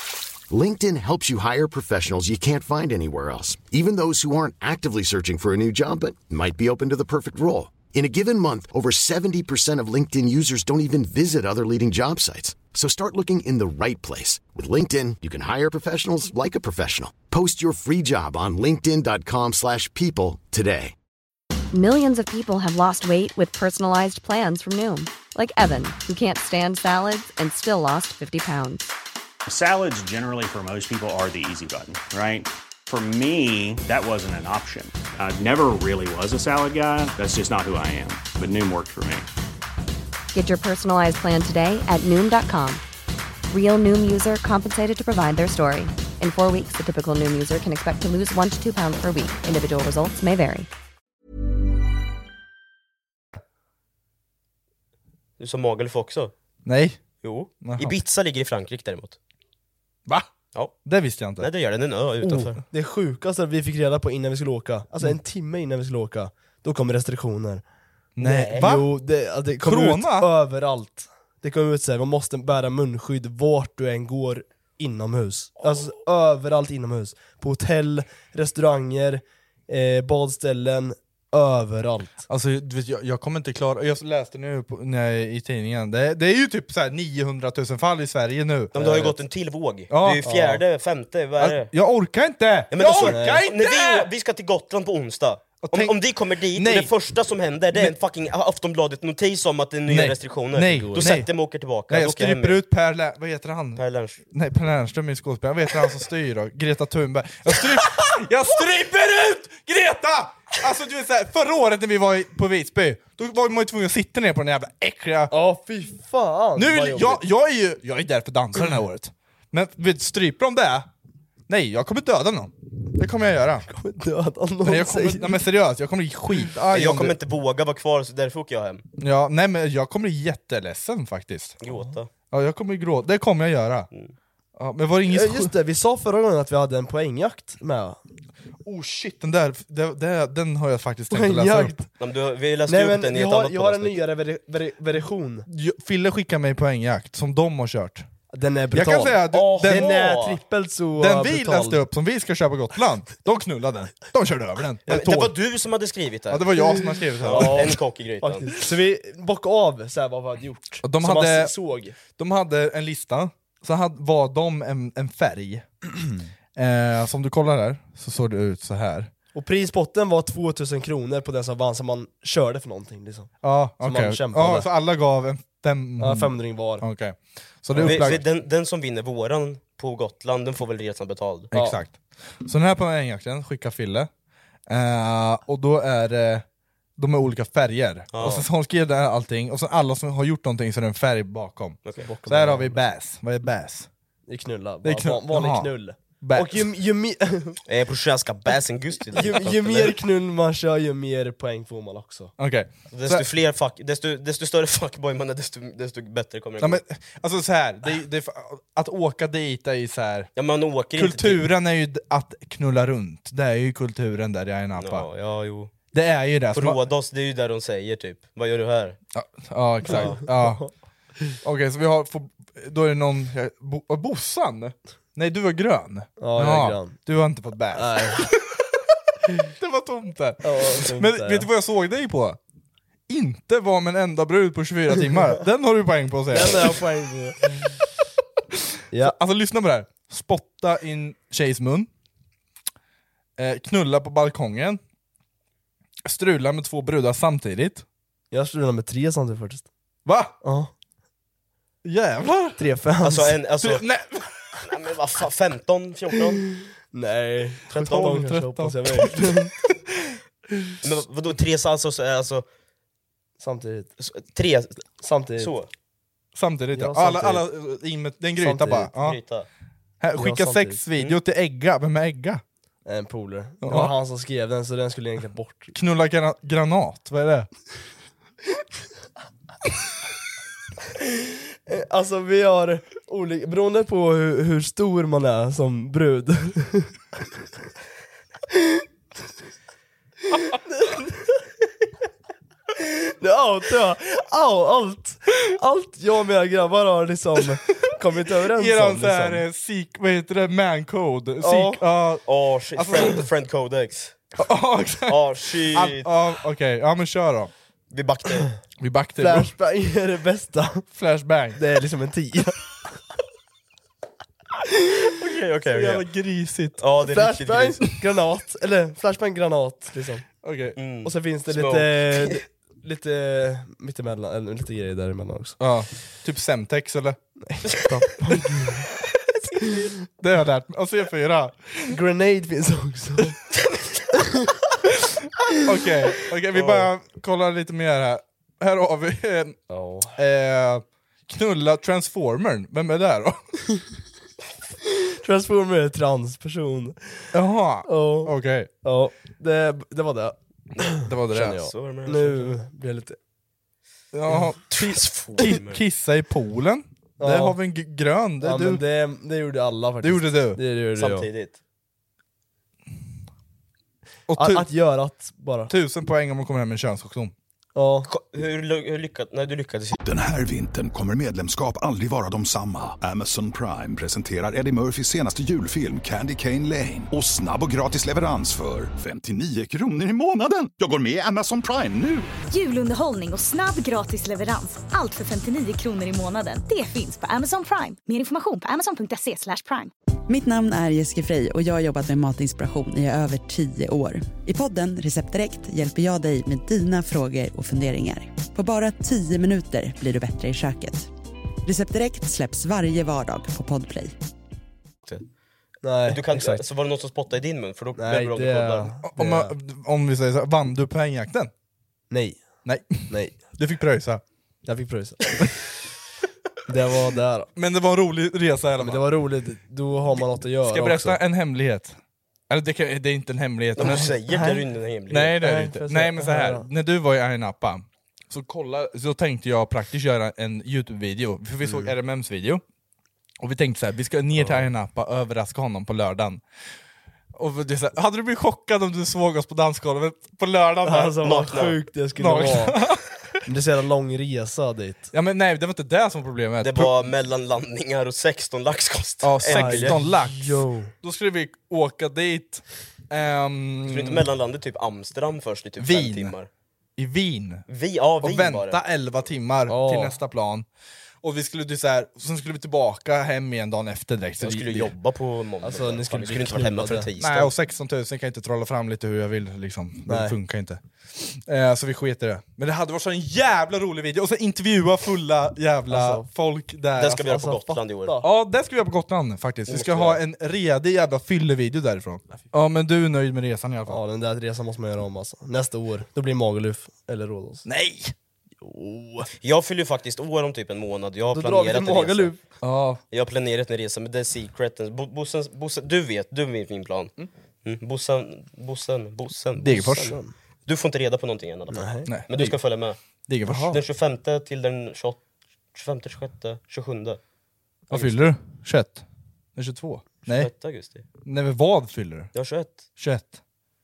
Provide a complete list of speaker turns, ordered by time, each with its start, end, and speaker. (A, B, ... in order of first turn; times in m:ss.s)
0:00.5-0:20.9 A
0:21.7-0:28.9 B
0:29.4-0:39.3 C
0:40.3-0:42.8 B
0:43.5-0:50.7 B
0:55.4-0:56.3 D
0:56.6-0:57.0 E
0:57.2-0:59.2 D
0:57.6-0:58.0 E
1:00.8-1:01.5 E
1:01.4-1:02.6 D
1:02.2-1:07.6 F
1:08.2-1:08.9 E
1:08.2-1:22.2 F
1:09.6-1:10.3 E
1:22.3-1:29.1 E
1:28.7-1:31.7 D
1:28.8-1:29.1 F
1:29.9-1:30.3 E
1:30.2-1:30.6 F
1:31.4-1:34.1 E
1:32.7-1:42.6 D
1:33.0-1:33.4 F
1:35.6-1:36.0 E
1:36.5-1:36.9 E
1:39.9-1:41.3 E
1:40.7-1:41.1 F
1:41.9-1:43.8 E
1:43.8-1:44.2 D
1:44.3-1:55.3 E
1:55.3-1:57.2 F
1:56.6-2:00.9 E
2:01.5-2:03.7 E
2:03.7-2:05.4 F
2:04.6-2:07.1 E
2:06.7-2:08.8 D
2:09.0-2:11.6 E
2:11.6-2:12.1 D
2:12.3-2:13.9 E
2:14.6-2:15.5 E
2:15.1-2:18.0 F
2:18.6-2:21.7 E
2:21.1-2:21.9 F
2:22.0-2:24.0 D
2:22.7-2:25.5 F
2:25.5-2:28.0 E
2:28.3-2:31.8 F
2:28.7-2:30.0 E
2:29.3-2:30.4 D
2:31.0-2:35.3 E
2:34.9-2:36.7 D
2:36.3-2:37.8 E
2:37.2-2:42.0 F
2:37.2-2:38.5 D
2:40.8-2:45.6 E
2:46.6-2:49.1 E
2:49.3-2:54.7 F
2:53.4-2:58.2 E
2:56.0-2:56.8 F
2:57.7-2:58.1 F
2:57.8-3:01.5 D
3:01.5-3:04.1 E
3:01.5-3:01.8 F
3:04.7-3:06.4 E
3:07.0-3:13.9 E
3:08.1-3:08.4 D
3:12.0-3:12.8 F
3:14.3-3:17.6 F
3:14.8-3:16.7 E
3:17.7-3:20.0 D
3:19.1-3:22.3 F
3:22.4-3:23.2 E
3:22.9-3:26.8 D
3:26.6-3:30.3 E
3:30.4-3:31.5 D
3:31.0-3:35.1 E
3:34.7-3:35.7 D
3:35.9-3:36.8 E
3:36.5-3:39.0 D
3:39.1-3:40.6 E
3:39.9-3:40.7 F
3:39.9-3:40.2 D
3:41.4-3:48.6 E
3:46.2-3:47.0 F
3:47.7-3:48.2 F
3:49.4-3:52.4 E
3:50.4-3:51.5 F
3:53.1-3:56.8 E
3:56.3-3:57.6 F
3:58.5-4:01.9 E
4:03.4-4:04.8 E
4:06.0-4:07.8 E
4:08.3-4:09.6 F
4:10.0-4:10.3 E
4:10.4-4:10.7 F
4:11.8-4:12.6 E
4:12.6-4:13.4 F
4:13.0-4:13.8 D
4:13.6-4:14.6 E
4:14.6-4:16.4 D
4:16.9-4:19.5 F
4:17.7-4:18.2 D
4:17.8-4:20.2 E
4:20.8-4:22.4 D
4:23.4-4:23.9 F
4:24.0-4:25.7 D
4:25.0-4:25.5 F
4:26.3-4:29.2 E
4:26.7-4:27.4 F
4:28.4-4:28.9 F
4:29.0-4:29.5 D
4:30.0-4:32.4 E
4:30.2-4:30.8 F
4:32.8-4:35.7 F
4:33.6-4:33.9 E
4:35.7-4:37.5 E
4:41.7-4:46.9 F
4:48.5-4:48.8 F
4:50.4-4:51.4 F
4:52.8-4:59.4 F
4:58.5-5:03.3 E
5:01.4-5:01.8 F
5:02.2-5:04.2 D
5:04.4-5:07.5 E
5:05.1-5:06.1 D
5:07.9-5:08.5 D
5:08.8-5:09.5 E
5:09.2-5:10.9 F
5:10.9-5:11.6 E
5:11.6-5:12.8 F
5:15.1-5:16.0 D
5:15.7-5:16.8 E
5:16.8-5:17.8 D
5:17.0-5:20.3 F
5:20.4-5:20.8 E
5:20.8-5:22.4 D
5:21.0-5:25.6 F
5:25.6-5:27.2 E
5:27.4-5:28.9 F
5:30.2-5:32.0 E
5:31.9-5:33.4 F
5:35.6-5:39.6 E
5:36.5-5:36.9 D
5:39.7-5:40.1 F
5:40.1-5:43.4 E
5:44.8-5:47.3 F
5:47.3-5:48.7 E
5:47.8-5:53.2 F
5:51.0-5:51.6 E
5:51.4-5:52.6 D
5:54.1-5:58.8 E
5:54.7-5:55.8 D
5:57.2-5:57.6 F
5:58.4-6:01.3 F
6:00.0-6:00.6 E
6:00.9-6:01.6 D
6:04.3-6:04.7 E
6:04.4-6:05.7 F
6:05.7-6:07.3 E
6:07.7-6:08.1 F
6:08.0-6:10.0 D
6:10.0-6:22.3 G
6:22.5-6:29.9 H
6:30.3-6:41.1 I
6:41.6-6:44.2 I
6:45.8-6:46.6 F
6:46.0-6:48.9 D
6:48.0-6:49.5 F
6:49.0-6:51.5 E
6:52.1-6:52.6 F
6:52.6-6:54.2 E
6:53.1-6:53.4 F
6:54.6-6:55.6 F
6:56.7-6:57.5 F
6:57.6-6:59.0 E
6:58.8-7:01.2 F
7:00.6-7:02.0 E
7:02.5-7:04.1 E
7:03.8-7:05.4 D
7:03.8-7:04.6 F
7:05.1-7:12.6 E
7:05.3-7:06.7 F
7:11.6-7:11.9 F
7:13.4-7:16.4 E
7:14.4-7:14.6 F
7:17.3-7:21.3 E
7:20.8-7:22.8 F
7:21.2-7:21.8 D
7:22.2-7:23.4 E
7:23.4-7:25.1 F
7:25.1-7:26.9 E
7:26.6-7:30.0 D
7:29.2-7:34.3 E
7:29.5-7:30.9 F
7:33.9-7:36.5 D
7:35.8-7:36.3 E
7:37.0-7:37.6 E
7:37.7-7:38.8 D
7:38.2-7:40.6 E
7:39.7-7:40.2 F
7:41.2-7:44.9 E
7:44.4-7:47.5 D
7:45.6-7:47.1 F
7:47.2-7:57.6 E
7:50.1-7:50.3 F
7:55.9-7:56.3 F
7:57.0-7:58.2 D
7:57.4-7:58.3 F
7:58.2-8:04.0 E
7:59.7-8:00.2 D
8:03.9-8:07.6 F
8:07.6-8:08.1 E
8:08.6-8:09.3 F
8:09.4-8:12.3 D
8:11.3-8:12.4 F
8:12.6-8:13.0 E
8:13.1-8:17.1 D
8:17.6-8:20.1 D
8:19.6-8:20.2 E
8:19.8-8:20.3 F
8:20.6-8:23.0 D
8:21.7-8:22.1 F
8:22.0-8:22.6 E
8:23.3-8:23.7 E
8:23.4-8:23.8 F
8:23.7-8:25.2 D
8:25.7-8:27.2 D
8:27.9-8:28.3 D
8:27.9-8:29.0 E
8:29.6-8:30.5 E
8:30.2-8:31.0 D
8:31.2-8:32.3 E
8:32.3-8:32.8 D
8:33.0-8:33.4 E